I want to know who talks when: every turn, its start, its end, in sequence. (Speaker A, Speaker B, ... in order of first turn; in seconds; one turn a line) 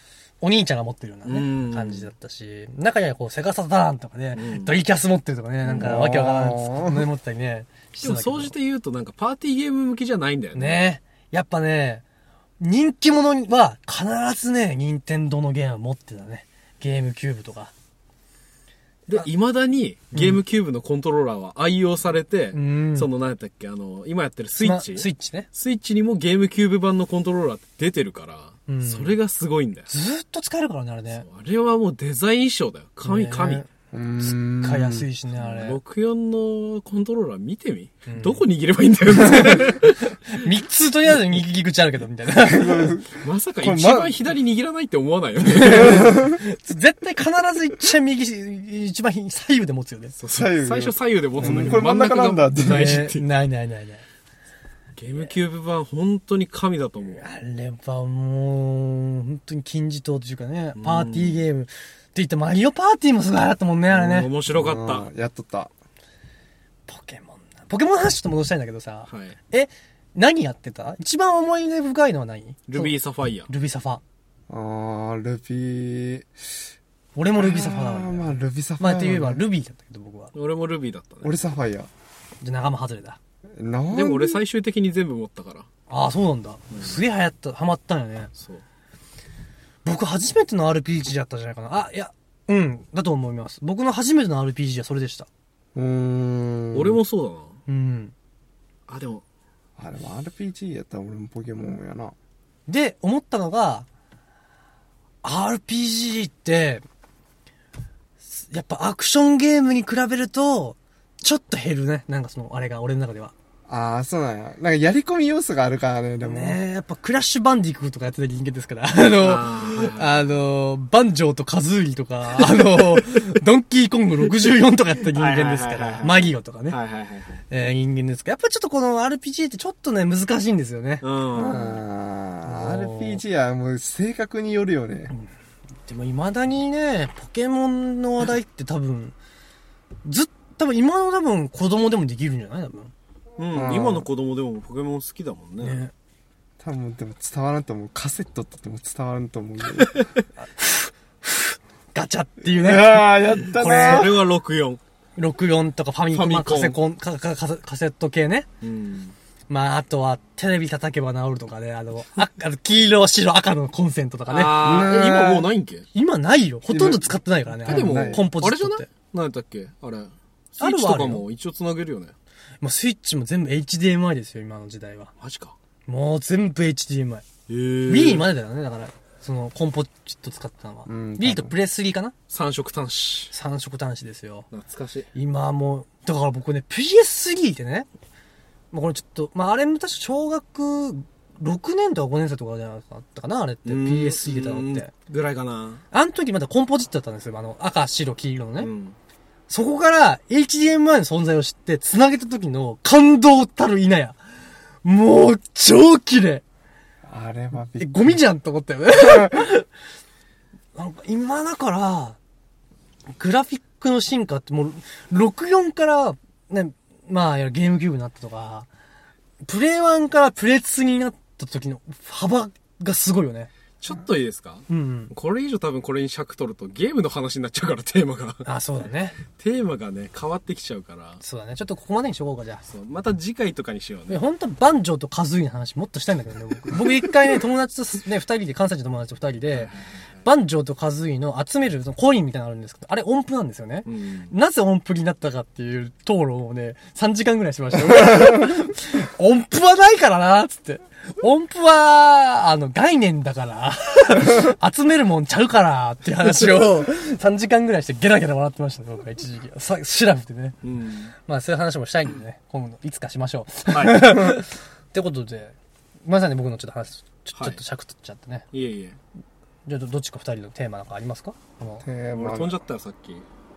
Speaker A: 0.4-8.5
Speaker B: 1.3-2.1
Speaker B: 4.4-4.8
Speaker C: 5.7-7.1
Speaker B: 8.0-10.8
Speaker A: 10.5-12.0
Speaker A: 12.6-17.7
Speaker B: 19.1-29.9
Speaker A: 20.1-20.4
Speaker A: 22.5-23.1
Speaker A: 24.6-25.5
Speaker A: 28.7-29.1
Speaker A: 29.9-31.2
Speaker B: 31.2-33.6
Speaker A: 33.0-33.7
Speaker C: 33.9-35.1
Speaker A: 34.2-35.8
Speaker B: 35.4-40.4
Speaker A: 38.1-38.4
Speaker A: 39.2-43.0
Speaker C: 42.4-44.2
Speaker B: 43.2-46.1
Speaker A: 45.5-50.1
Speaker C: 45.6-46.4
Speaker B: 50.2-53.2
Speaker C: 50.3-53.0
Speaker A: 51.4-51.8
Speaker A: 52.6-54.0
Speaker B: 55.0-57.2
Speaker A: 57.2-64.3
Speaker B: 60.8-61.4
Speaker B: 63.9-65.1
Speaker C: 64.5-65.7
Speaker A: 66.9-72.9
Speaker B: 69.1-69.4
Speaker B: 72.7-73.5
Speaker A: 73.5-74.0
Speaker C: 74.5-76.3
Speaker A: 77.2-80.3
Speaker C: 77.4-79.4
Speaker B: 80.3-81.4
Speaker C: 81.2-81.9
Speaker A: 82.4-83.2
Speaker C: 83.6-84.4
Speaker B: 83.9-85.7
Speaker A: 85.9-88.3
Speaker B: 86.7-87.0
Speaker B: 88.3-88.6
Speaker A: 89.8-95.3
Speaker C: 95.8-97.0
Speaker B: 96.7-97.6
Speaker A: 97.7-98.1
Speaker B: 98.9-99.2
Speaker C: 99.8-102.2
Speaker A: 102.7-103.9
Speaker A: 105.2-106.8
Speaker A: 108.2-113.3
Speaker C: 113.7-116.6
Speaker A: 116.2-126.8
Speaker B: 119.2-120.2
Speaker B: 125.1-127.5
Speaker A: 127.5-131.6
Speaker B: 131.0-131.8
Speaker C: 131.4-135.1
Speaker A: 132.5-133.2
Speaker A: 135.9-139.2
Speaker A: 140.1-142.9
Speaker B: 143.4-145.8
Speaker C: 143.5-144.1
Speaker A: 145.6-145.9
Speaker C: 146.6-150.0
Speaker B: 149.8-150.2
Speaker A: 150.4-154.2
Speaker C: 152.5-154.2
Speaker B: 153.5-154.8
Speaker A: 155.2-158.5
Speaker B: 156.1-156.8
Speaker B: 158.6-159.2
Speaker A: 159.5-164.8
Speaker B: 164.3-165.9
Speaker C: 164.6-165.5
Speaker A: 165.9-168.9
Speaker C: 166.7-167.1
Speaker C: 167.6-168.2
Speaker B: 167.7-172.2
Speaker A: 170.6-171.2
Speaker A: 172.6-175.1
Speaker B: 175.2-175.6
Speaker A: 175.9-177.3
Speaker B: 177.5-178.3
Speaker A: 177.9-182.1
Speaker C: 180.9-181.5
Speaker B: 182.3-183.3
Speaker A: 183.3-184.5
Speaker B: 184.5-185.1
Speaker A: 185.1-187.9
Speaker A: 188.7-194.9
Speaker B: 193.7-195.8
Speaker A: 195.9-198.7
Speaker B: 198.6-199.0
Speaker A: 199.5-204.2
Speaker A: 204.8-206.4
Speaker C: 207.1-208.2
Speaker A: 207.8-209.7
Speaker C: 209.0-209.4
Speaker A: 210.8-212.2
Speaker A: 213.1-218.7
Speaker A: 219.4-223.5
Speaker B: 223.8-228.5
Speaker A: 224.7-225.1
Speaker A: 228.4-229.2
Speaker B: 229.3-231.2
Speaker A: 231.2-232.6
Speaker B: 232.7-234.2
Speaker A: 234.1-239.7
Speaker B: 239.6-239.9
Speaker A: 240.2-260.6
Speaker B: 243.9-244.3
Speaker B: 260.6-261.1
Speaker A: 261.2-268.5
Speaker B: 263.7-264.3
Speaker B: 267.4-267.6
Speaker B: 268.5-269.0
Speaker A: 269.7-271.9
Speaker C: 271.8-272.6
Speaker B: 272.1-273.3